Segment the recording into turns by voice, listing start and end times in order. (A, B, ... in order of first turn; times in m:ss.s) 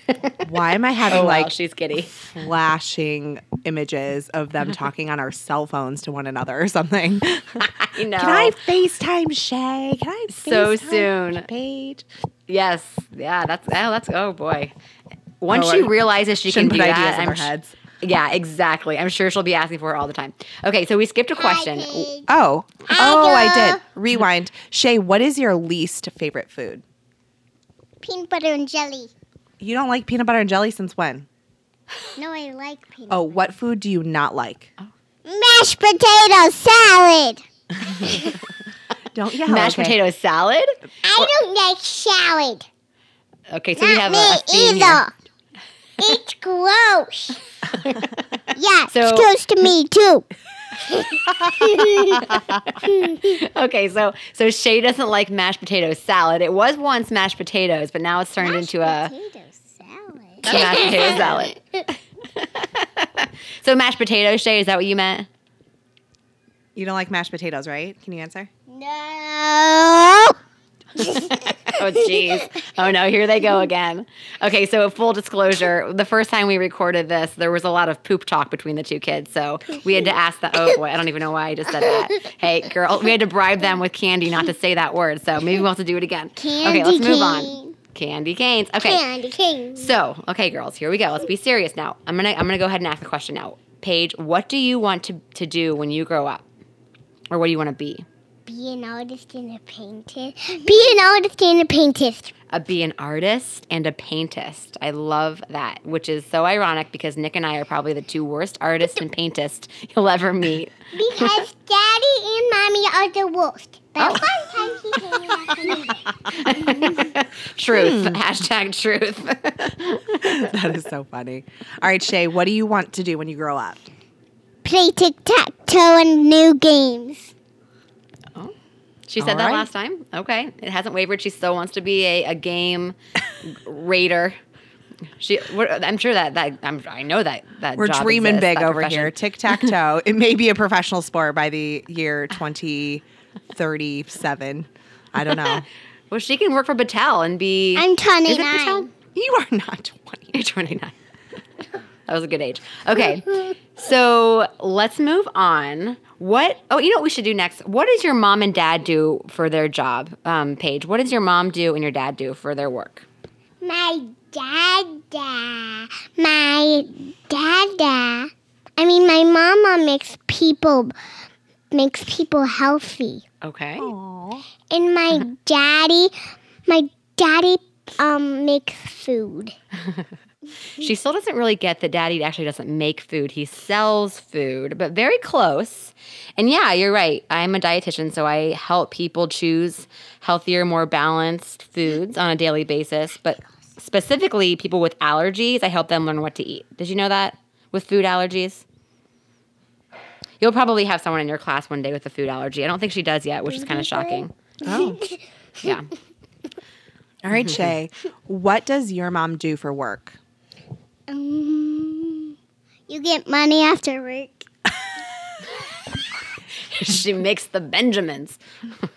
0:00.4-0:01.5 A
0:01.1-0:02.2 B
0:02.1-0:12.0 A
0:07.6-0:08.6 B
0:10.3-0:11.5 B
0:12.5-0:14.7 B
0:15.4-0:17.5 B
0:15.5-0:15.9 A
0:16.5-0:17.7 A
0:18.0-0:22.1 B
0:21.4-0:22.3 C
0:22.3-0:26.8 A
0:22.9-0:23.8 C
0:28.0-0:29.1 C
0:29.6-0:31.3 A
0:32.2-0:33.4 C
0:33.1-0:34.7 A
0:35.2-0:37.4 C
0:37.8-0:38.1 A
0:38.0-0:38.3 C
0:39.1-0:40.0 A
0:39.4-0:40.7 B
0:41.0-0:42.7 C
0:43.5-0:45.0 B
0:43.8-0:45.1 C
0:46.0-0:47.4 C
0:47.7-0:48.1 B
0:48.5-0:50.3 C
0:48.9-0:49.3 B
0:50.8-0:53.4 C
0:51.6-0:59.1 B
0:58.4-1:01.8 C
1:00.4-1:05.3 B
1:06.7-1:08.5 A
1:08.7-1:10.4 C
1:11.0-1:29.0 B
1:11.0-1:12.3 C
1:26.4-1:27.7 C
1:28.8-1:30.0 C
1:29.7-1:36.4 B
1:37.3-1:38.0 B
1:38.4-1:42.3 C
1:42.5-1:51.4 B
1:50.9-1:56.0 C
1:56.3-2:00.5 B
1:57.7-1:58.2 A
2:00.2-2:03.9 A
2:04.6-2:07.3 C
2:09.1-2:14.4 B
2:09.2-2:09.7 A
2:15.2-2:19.7 B
2:17.8-2:25.6 A
2:25.3-2:27.9 B
2:27.8-2:28.9 C
2:28.3-2:30.3 A
2:30.3-2:30.9 B
2:32.1-2:43.0 B
2:43.6-2:50.9 C
2:51.7-2:53.2 C
2:53.4-2:53.9 B
2:53.8-2:54.4 A
2:54.7-2:56.1 C
2:56.7-2:59.5 C
3:00.8-3:18.6 B
3:20.4-3:24.3 B
3:23.5-3:25.7 C
3:24.6-3:25.0 A
3:25.6-3:25.9 B
3:27.2-3:30.2 A
3:27.3-3:27.6 B
3:31.1-3:32.3 C
3:32.9-3:34.5 C
3:36.6-3:38.4 B